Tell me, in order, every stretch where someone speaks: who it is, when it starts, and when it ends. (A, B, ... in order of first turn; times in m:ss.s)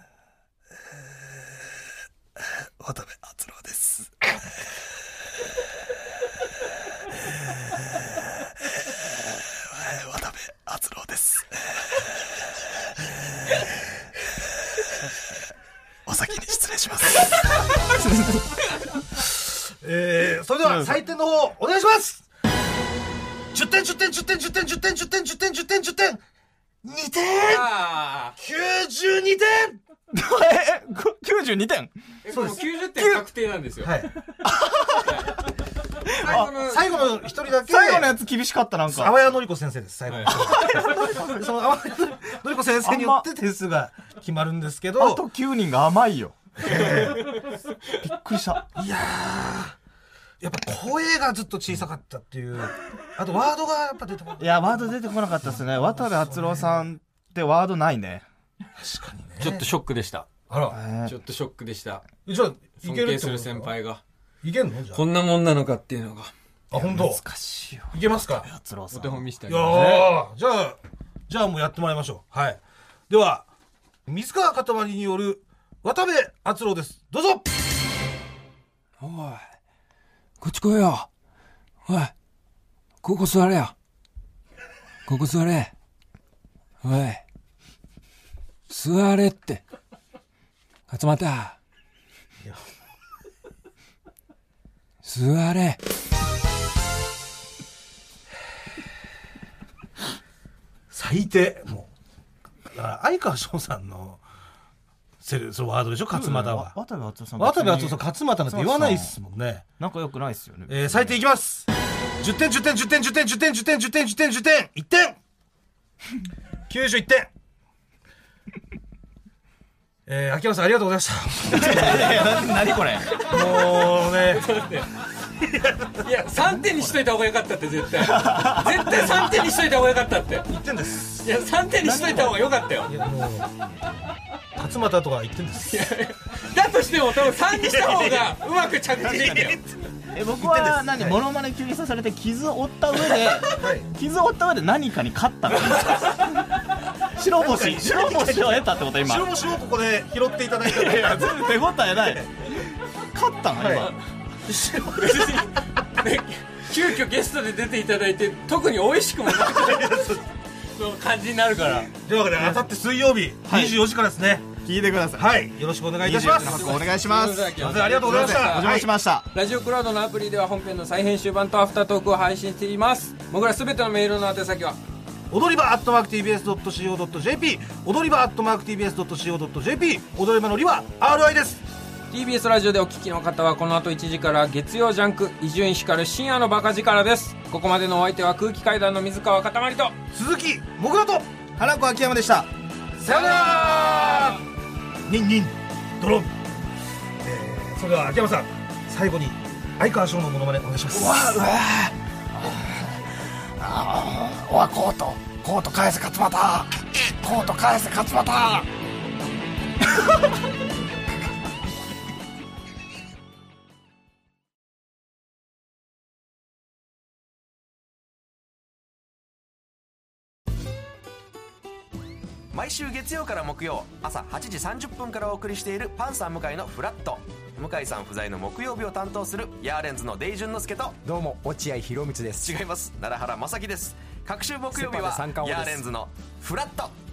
0:02.8-0:04.1 A
0:09.6-0:13.1 A
0:14.8-0:15.0 A
0:16.0-0:18.7 A
0:19.5-0:22.3 B
0:20.7-0:20.9 A
0:23.5-0:26.2 B
0:26.8-0:27.6 B
0:27.5-0:28.4 C
0:28.4-0:29.8 B
0:30.1-0:31.9 A
0:32.2-0:33.9 C
0:32.3-0:32.6 B
0:33.8-0:34.1 B
0:34.4-0:35.3 A
0:35.0-0:35.4 C
0:36.1-0:36.8 C
0:36.1-0:36.5 A
0:36.2-0:38.2 B
0:37.6-0:39.2 A
0:38.8-0:45.2 B
0:40.1-0:40.4 C
0:40.3-0:41.4 A
0:42.8-0:43.2 A
0:45.0-0:47.3 A
0:46.6-0:47.4 B
0:48.0-0:48.7 A
0:48.8-0:49.8 B
0:50.4-0:56.9 B
0:54.4-0:58.2 A
0:58.8-0:59.6 B
0:59.4-1:00.3 C
1:00.5-1:00.8 B
1:00.7-1:01.1 A
1:01.0-1:02.0 C
1:02.2-1:03.7 B
1:02.8-1:04.0 C
1:04.4-1:05.0 B
1:04.9-1:06.3 C
1:06.7-1:07.2 B
1:06.7-1:09.2 A
1:07.9-1:08.5 B
1:08.9-1:10.2 C
1:09.5-1:13.5 B
1:14.1-1:17.5 B
1:19.0-1:19.4 C
1:20.4-1:21.1 C
1:21.8-1:22.1 C
1:23.0-1:23.7 C
1:25.1-1:25.7 C
1:26.8-1:27.2 C
1:28.7-1:29.6 C
1:30.9-1:31.6 C
1:35.0-1:35.8 C
1:40.9-1:41.9 B
1:42.7-1:44.2 B
1:45.2-1:46.8 B
1:46.1-1:49.2 A
1:47.4-1:49.6 B
1:49.8-1:51.2 A
1:50.7-1:51.7 B
1:52.2-1:55.2 B
1:56.7-1:57.3 B
2:00.1-2:02.4 B
2:01.5-2:03.3 A
2:03.2-2:03.6 C
2:03.2-2:04.4 B
2:04.1-2:04.9 C
2:05.4-2:05.9 B
2:06.0-2:10.5 C
2:08.0-2:09.3 A
2:10.5-2:11.2 B
2:11.2-2:12.9 C
2:11.8-2:12.5 A
2:12.9-2:13.5 B
2:14.5-2:15.9 B
2:15.7-2:19.6 C
2:19.0-2:26.2 A
2:20.3-2:21.2 B
2:23.5-2:23.9 B
2:27.1-2:29.3 A
2:27.3-2:31.6 B
2:30.6-2:33.9 A
2:33.5-2:33.9 B
2:34.5-2:35.0 B
2:34.8-2:40.1 C
2:39.3-2:40.3 B
2:40.7-2:41.9 C
2:41.9-2:44.5 B
2:43.4-2:43.8 A
2:44.6-2:45.3 A
2:45.2-2:46.8 B
2:46.0-2:49.3 A
2:46.2-2:54.8 C
2:47.6-2:48.9 B
2:55.3-3:01.6 B
3:02.1-3:09.9 C
3:10.1-3:11.3 B
3:11.6-3:12.5 A
3:13.0-3:14.4 B
3:13.0-3:14.4 C
3:15.1-3:16.3 B
3:17.2-3:21.2 B
3:20.9-3:23.0 A
3:23.6-3:28.7 A
3:42.5-3:51.0 D
3:51.0-3:52.6 E
3:52.4-3:57.0 D
3:54.7-3:55.9 E